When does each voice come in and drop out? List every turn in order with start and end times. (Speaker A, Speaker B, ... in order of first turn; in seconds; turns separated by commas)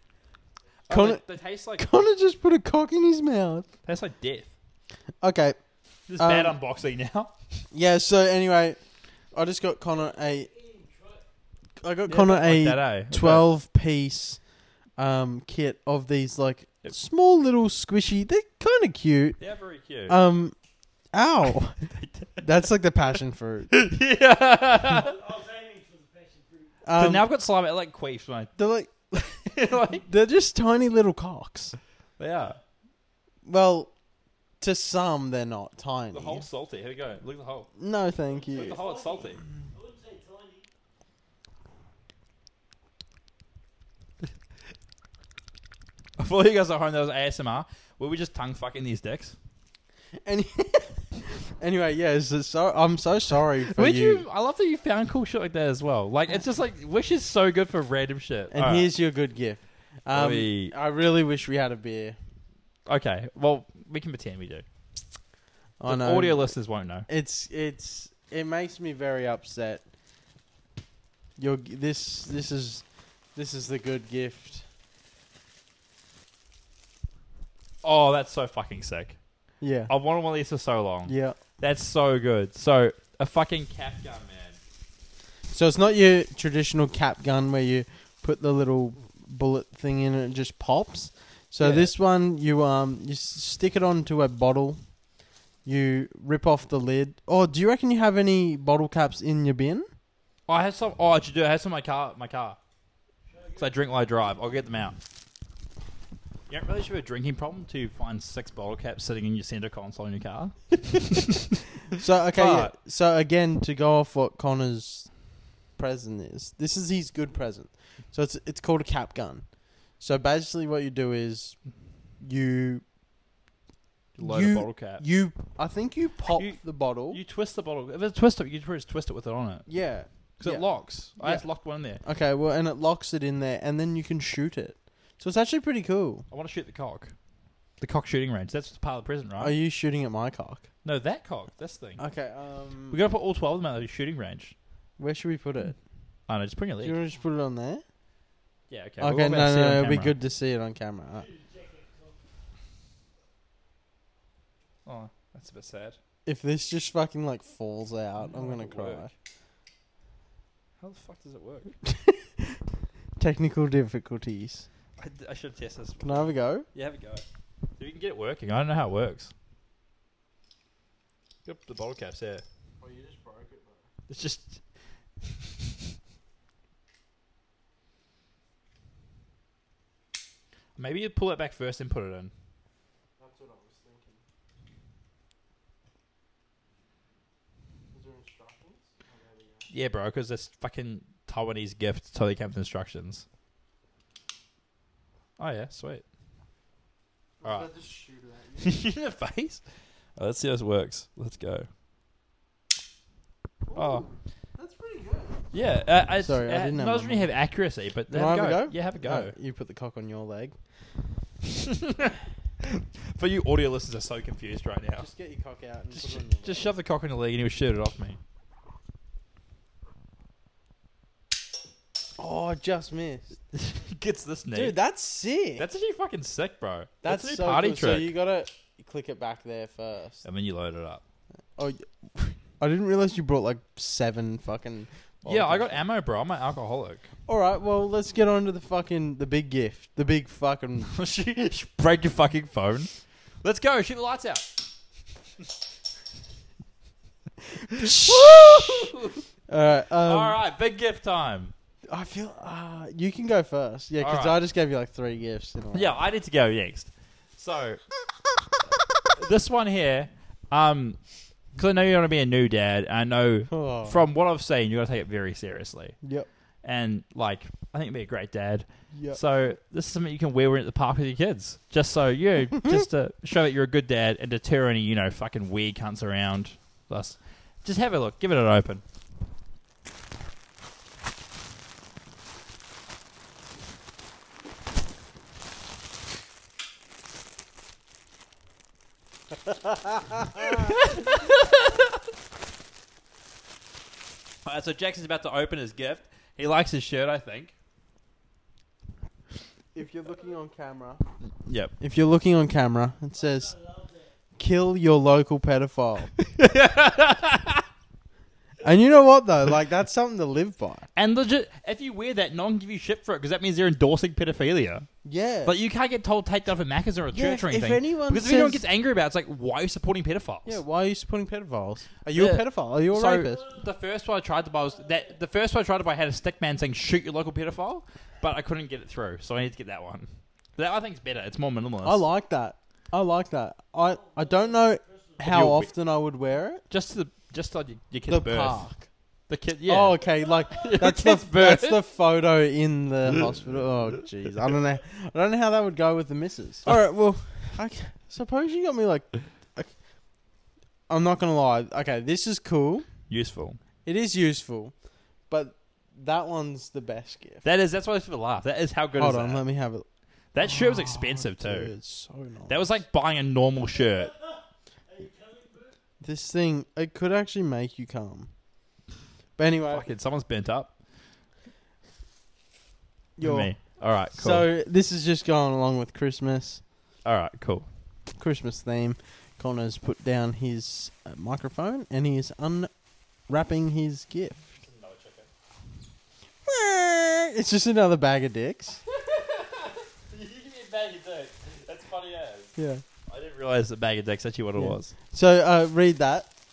Speaker A: 0.9-1.9, Speaker B: 0.9-1.2, Speaker B: 1.8-3.7, Speaker A: 3.9-4.5, Speaker B: 5.2-5.6, Speaker A: 6.1-7.3, Speaker B: 6.2-6.6, Speaker B: 7.7-8.8, Speaker B: 9.3-10.5, Speaker C: 9.8-11.2, Speaker B: 11.8-14.4, Speaker A: 12.1-13.4, Speaker B: 15.0-19.4, Speaker A: 19.4-20.2, Speaker B: 20.1-20.5, Speaker B: 21.1-21.8, Speaker A: 21.9-22.4, Speaker B: 22.4-23.7, Speaker A: 23.7-25.1, Speaker C: 24.4-26.8, Speaker B: 26.8-27.2, Speaker A: 27.0-28.5, Speaker B: 28.6-31.8, Speaker A: 29.4-30.0, Speaker A: 32.2-32.6, Speaker B: 33.4-33.9, Speaker B: 34.6-36.4, Speaker A: 36.1-37.7, Speaker B: 37.8-38.8, Speaker C: 38.3-40.7, Speaker A: 38.5-39.4, Speaker A: 46.2-49.4, Speaker B: 50.2-54.2, Speaker A: 53.6-58.9, Speaker B: 58.5-62.2, Speaker A: 60.1-60.7, Speaker A: 62.9-64.6, Speaker B: 65.8-66.5, Speaker A: 65.8-67.1, Speaker B: 67.1-69.8, Speaker B: 71.4-74.7, Speaker A: 77.8-79.2, Speaker B: 79.6-79.9, Speaker A: 79.9-84.6, Speaker B: 81.1-81.4, Speaker B: 85.5-94.8, Speaker A: 91.6-91.9, Speaker B: 95.6-99.9, Speaker A: 100.5-102.6, Speaker C: 103.2-104.6, Speaker A: 103.6-105.0, Speaker A: 106.5-111.6, Speaker B: 111.9-115.1, Speaker A: 112.3-112.7, Speaker B: 115.8-119.5, Speaker B: 120.0-121.6, Speaker B: 122.2-122.8, Speaker A: 124.2-125.0, Speaker B: 124.2-127.2, Speaker A: 126.3-129.7, Speaker B: 129.7-131.4, Speaker A: 130.4-132.0, Speaker B: 132.0-136.2, Speaker A: 136.3-137.1, Speaker A: 137.8-139.5, Speaker B: 139.4-140.7, Speaker A: 140.8-142.0, Speaker B: 142.0-143.0, Speaker A: 142.9-144.5, Speaker B: 145.0-145.8, Speaker A: 146.3-147.0, Speaker B: 146.8-147.8, Speaker A: 148.7-150.1, Speaker B: 149.0-151.3, Speaker C: 151.1-152.2, Speaker A: 154.8-156.0, Speaker B: 156.2-159.1, Speaker A: 158.2-159.1, Speaker A: 160.8-161.8, Speaker B: 161.8-162.6, Speaker B: 163.2-164.7, Speaker A: 165.0-167.2, Speaker B: 166.0-166.7, Speaker A: 167.8-169.3, Speaker A: 171.4-172.4, Speaker B: 172.8-173.9, Speaker A: 174.1-174.6, Speaker A: 180.8-182.3, Speaker B: 183.2-184.2, Speaker B: 187.9-189.7, Speaker A: 189.7-193.2, Speaker A: 195.4-196.0, Speaker B: 197.4-198.8, Speaker A: 198.6-199.6, Speaker A: 200.2-201.7, Speaker B: 203.7-205.4, Speaker A: 203.7-204.1, Speaker A: 205.5-209.3, Speaker B: 206.2-207.3, Speaker B: 208.1-210.6, Speaker A: 211.4-215.1, Speaker B: 215.0-216.7, Speaker A: 215.9-218.2, Speaker B: 222.2-223.2, Speaker A: 223.5-224.8, Speaker B: 224.5-225.7, Speaker A: 225.6-228.1, Speaker B: 227.0-230.2, Speaker A: 230.2-231.0, Speaker B: 231.6-235.8, Speaker A: 235.2-237.1, Speaker B: 237.3-240.9, Speaker A: 240.9-244.5, Speaker B: 247.7-248.9, Speaker A: 247.7-249.2, Speaker B: 249.5-250.4, Speaker A: 250.0-251.5, Speaker B: 251.9-256.0, Speaker A: 254.0-254.4, Speaker A: 255.7-257.8, Speaker A: 259.1-261.0, Speaker A: 261.6-265.9, Speaker B: 263.5-264.0, Speaker B: 266.0-266.3, Speaker A: 266.6-278.8, Speaker B: 268.9-269.2, Speaker B: 289.5-290.7, Speaker A: 290.5-291.9, Speaker A: 294.4-297.5, Speaker B: 299.7-301.0, Speaker A: 301.2-301.7, Speaker B: 301.8-303.5, Speaker C: 303.1-304.1, Speaker B: 304.4-306.1, Speaker A: 306.3-307.6, Speaker B: 308.6-310.9, Speaker A: 310.9-314.9, Speaker B: 315.0-315.5, Speaker A: 315.4-320.6, Speaker B: 317.1-318.6, Speaker B: 320.4-323.4, Speaker A: 322.1-332.0, Speaker C: 323.2-323.7, Speaker C: 324.4-325.1, Speaker B: 331.8-336.6, Speaker C: 333.9-335.2, Speaker A: 335.2-335.7, Speaker A: 336.7-338.6, Speaker B: 338.1-338.9, Speaker A: 339.3-341.8, Speaker B: 339.7-349.7, Speaker B: 350.9-352.9, Speaker A: 353.1-353.6, Speaker B: 353.8-354.7, Speaker B: 355.3-357.4, Speaker A: 357.4-359.4, Speaker B: 358.9-359.9, Speaker A: 360.3-361.7, Speaker B: 360.4-362.7, Speaker A: 362.5-364.1, Speaker C: 363.7-365.7, Speaker B: 366.0-368.3, Speaker B: 369.4-369.9, Speaker A: 369.7-370.7, Speaker B: 373.2-373.5, Speaker A: 373.2-374.5, Speaker B: 374.1-376.6, Speaker A: 377.0-377.7, Speaker B: 378.2-382.7, Speaker B: 383.3-384.4, Speaker A: 384.5-385.3, Speaker B: 386.4-388.8, Speaker A: 388.9-392.5, Speaker B: 392.6-392.8, Speaker A: 393.1-394.9, Speaker B: 394.6-396.3